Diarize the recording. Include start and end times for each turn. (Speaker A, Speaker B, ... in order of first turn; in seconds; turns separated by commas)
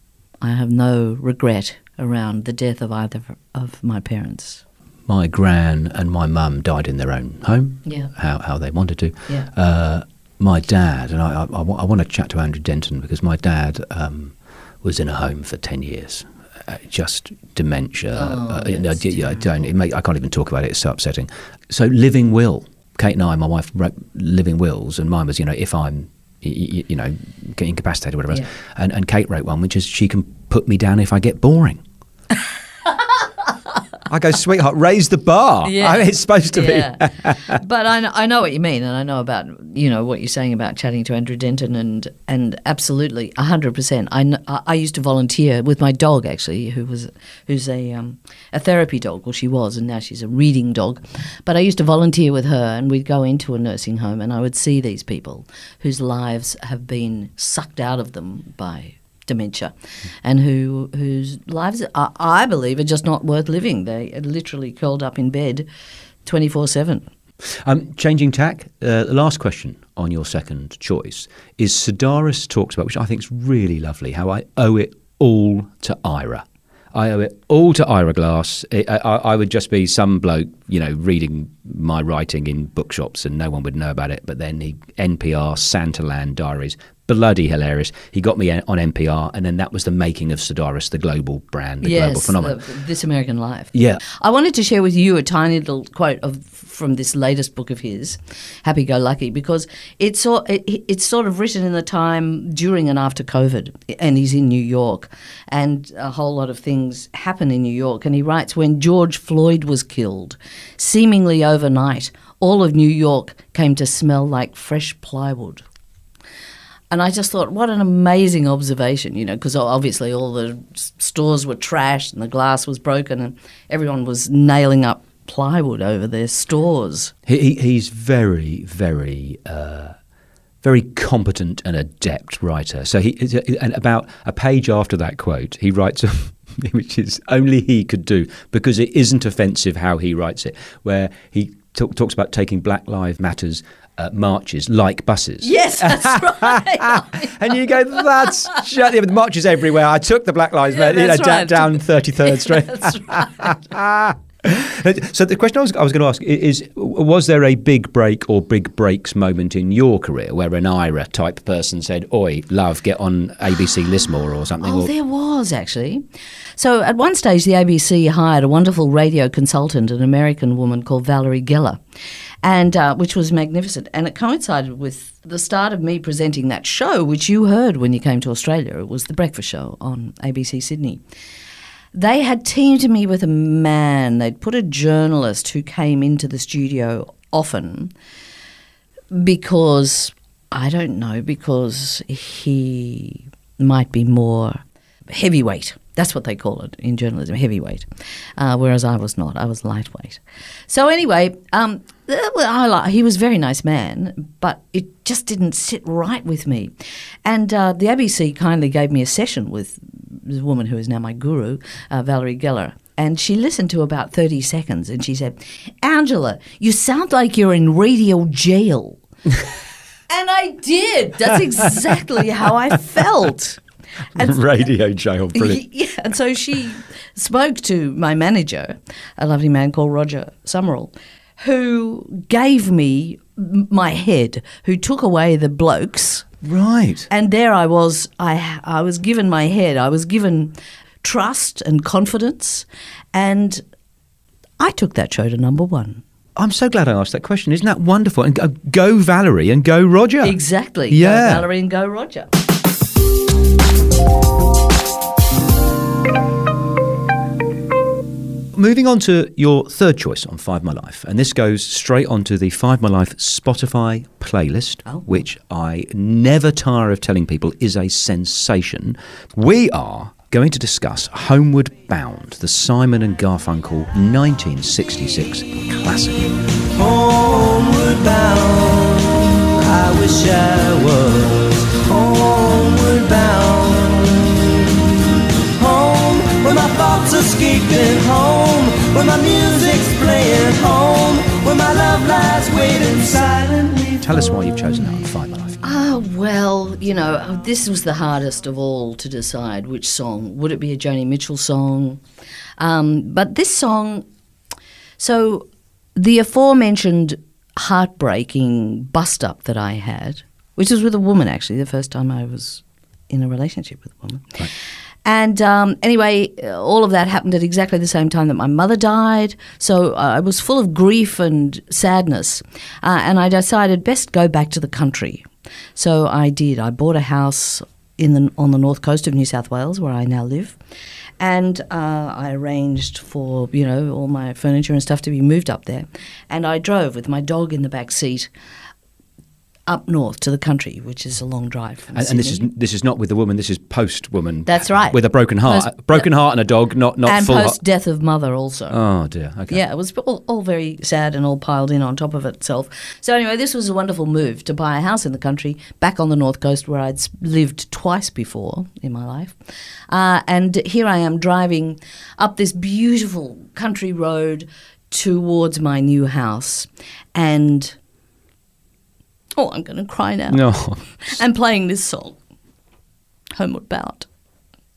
Speaker A: 0.4-4.6, Speaker B: 5.1-31.8, Speaker A: 7.8-8.1, Speaker A: 18.1-19.5, Speaker B: 34.1-37.6, Speaker A: 35.6-65.7, Speaker A: 66.2-67.1, Speaker B: 67.6-92.6, Speaker A: 91.8-115.7, Speaker B: 93.7-94.0, Speaker A: 116.9-127.1, Speaker B: 127.3-130.0, Speaker B: 130.6-164.9, Speaker A: 145.4-148.6, Speaker A: 150.7-153.6, Speaker A: 164.6-166.0, Speaker A: 166.6-171.8, Speaker A: 172.4-181.0, Speaker A: 181.9-187.9, Speaker A: 189.1-206.7, Speaker A: 207.2-219.0, Speaker A: 220.1-223.6, Speaker B: 224.2-225.6, Speaker A: 225.3-236.3, Speaker B: 236.4-237.1, Speaker A: 237.1-243.6, Speaker A: 244.6-246.0, Speaker B: 246.4-250.4, Speaker A: 250.2-252.3, Speaker B: 250.9-251.5, Speaker B: 258.5-276.3, Speaker C: 276.7-294.0, Speaker B: 294.0-295.6, Speaker A: 295.6-302.0, Speaker A: 302.6-304.1, Speaker A: 305.0-314.5, Speaker A: 315.1-330.6, Speaker A: 331.2-338.3, Speaker A: 339.7-342.4, Speaker B: 341.9-347.6, Speaker A: 344.5-346.1, Speaker A: 347.1-348.8, Speaker B: 348.7-349.6, Speaker A: 349.5-359.4, Speaker A: 359.9-367.8, Speaker A: 369.4-370.4, Speaker B: 370.3-371.1, Speaker A: 371.1-372.2, Speaker A: 373.4-374.1